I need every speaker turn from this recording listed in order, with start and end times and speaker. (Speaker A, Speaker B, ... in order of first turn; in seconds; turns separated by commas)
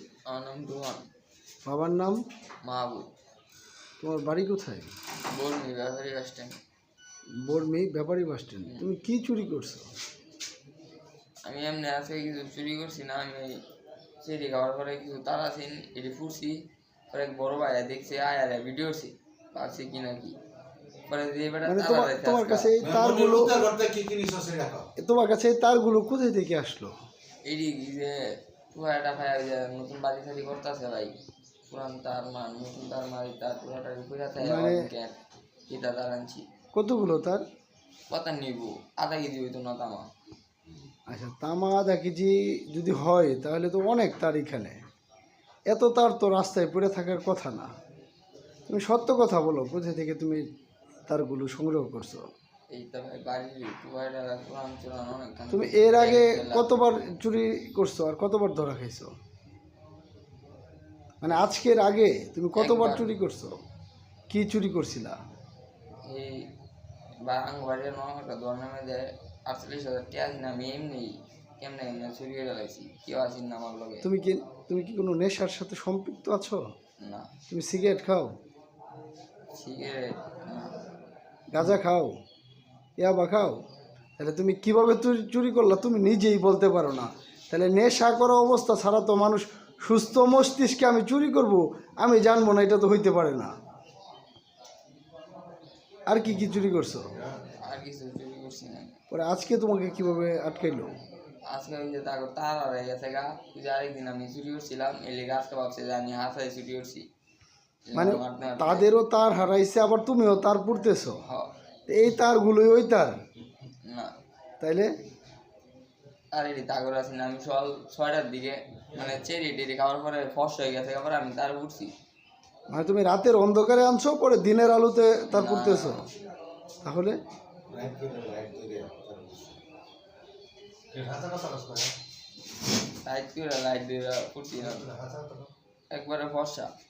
Speaker A: 0.3-1.0, Speaker B: 1.6-2.2, Speaker A: 2.6-3.1, Speaker B: 4.0-4.9, Speaker A: 5.3-6.6, Speaker B: 7.4-9.9, Speaker A: 8.6-8.9, Speaker A: 11.4-13.6, Speaker A: 14.2-16.6, Speaker A: 17.1-20.4, Speaker A: 21.1-22.7, Speaker B: 21.6-23.6, Speaker C: 22.8-24.9, Speaker B: 25.0-26.9, Speaker A: 27.4-28.2, Speaker A: 28.7-31.1, Speaker A: 31.7-35.1, Speaker B: 34.4-34.9, Speaker A: 35.7-36.4, Speaker B: 36.7-37.4, Speaker A: 38.1-40.1, Speaker B: 41.1-44.8, Speaker B: 45.7-47.7, Speaker B: 48.7-50.4, Speaker B: 51.1-52.2, Speaker A: 52.7-56.8, Speaker B: 55.5-59.1, Speaker B: 61.2-63.5, Speaker A: 62.5-63.1, Speaker B: 64.3-65.1, Speaker A: 66.0-66.5, Speaker A: 67.2-74.1, Speaker B: 74.0-76.6, Speaker A: 77.0-77.3, Speaker B: 77.5-78.3, Speaker A: 79.5-80.7, Speaker B: 81.5-82.1, Speaker B: 83.0-83.6, Speaker B: 84.2-93.5, Speaker B: 96.1-97.1, Speaker C: 97.1-97.4, Speaker A: 97.6-99.0, Speaker B: 99.1-100.9, Speaker A: 101.5-107.0, Speaker A: 107.9-108.9, Speaker B: 107.9-111.2, Speaker A: 111.2-111.5, Speaker B: 111.9-113.1, Speaker A: 113.8-114.1, Speaker B: 114.6-114.9, Speaker A: 116.3-121.9, Speaker B: 122.7-126.0, Speaker A: 125.3-126.1, Speaker B: 126.8-127.1, Speaker C: 127.7-129.6, Speaker C: 130.9-131.9, Speaker A: 133.0-134.9, Speaker C: 134.6-135.5, Speaker A: 135.9-136.7